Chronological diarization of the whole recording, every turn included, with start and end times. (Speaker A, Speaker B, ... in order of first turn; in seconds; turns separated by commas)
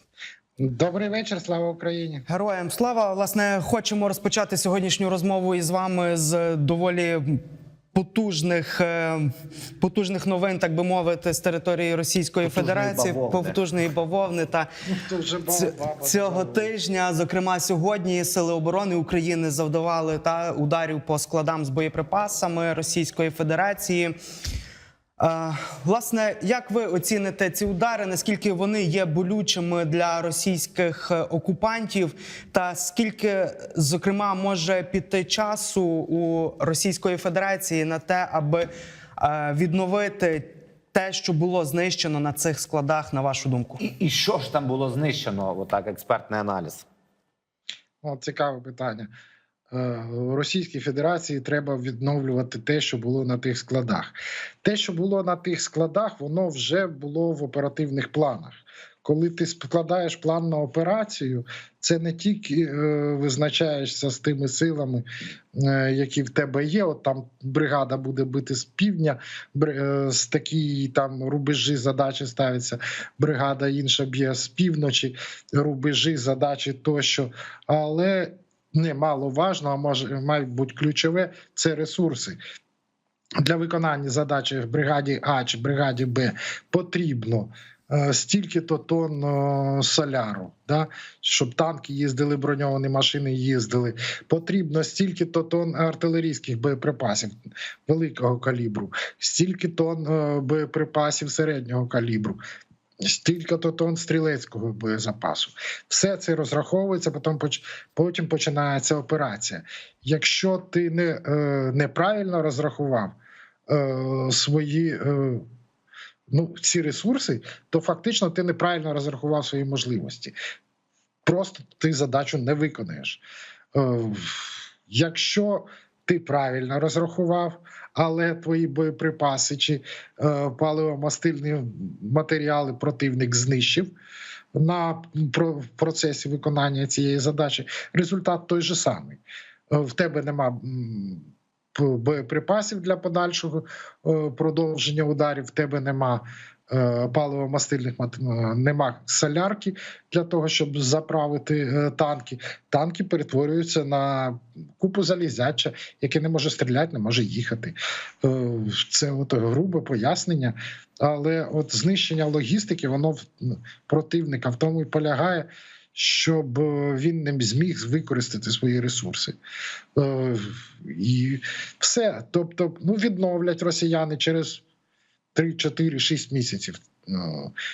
Speaker A: 0.6-2.2, Speaker B: 2.3-7.4, Speaker B: 7.9-14.7, Speaker C: 12.4-13.6, Speaker A: 14.9-16.7, Speaker B: 15.5-24.1, Speaker B: 25.2-43.8, Speaker C: 43.8-46.8, Speaker A: 48.0-49.1, Speaker A: 49.7-82.4, Speaker A: 83.4-97.3, Speaker A: 97.8-102.4, Speaker A: 103.0-113.2, Speaker A: 113.7-115.4, Speaker A: 116.3-120.3, Speaker A: 121.2-123.2, Speaker A: 123.7-133.9, Speaker A: 134.5-169.4, Speaker A: 169.9-174.6, Speaker A: 175.3-177.5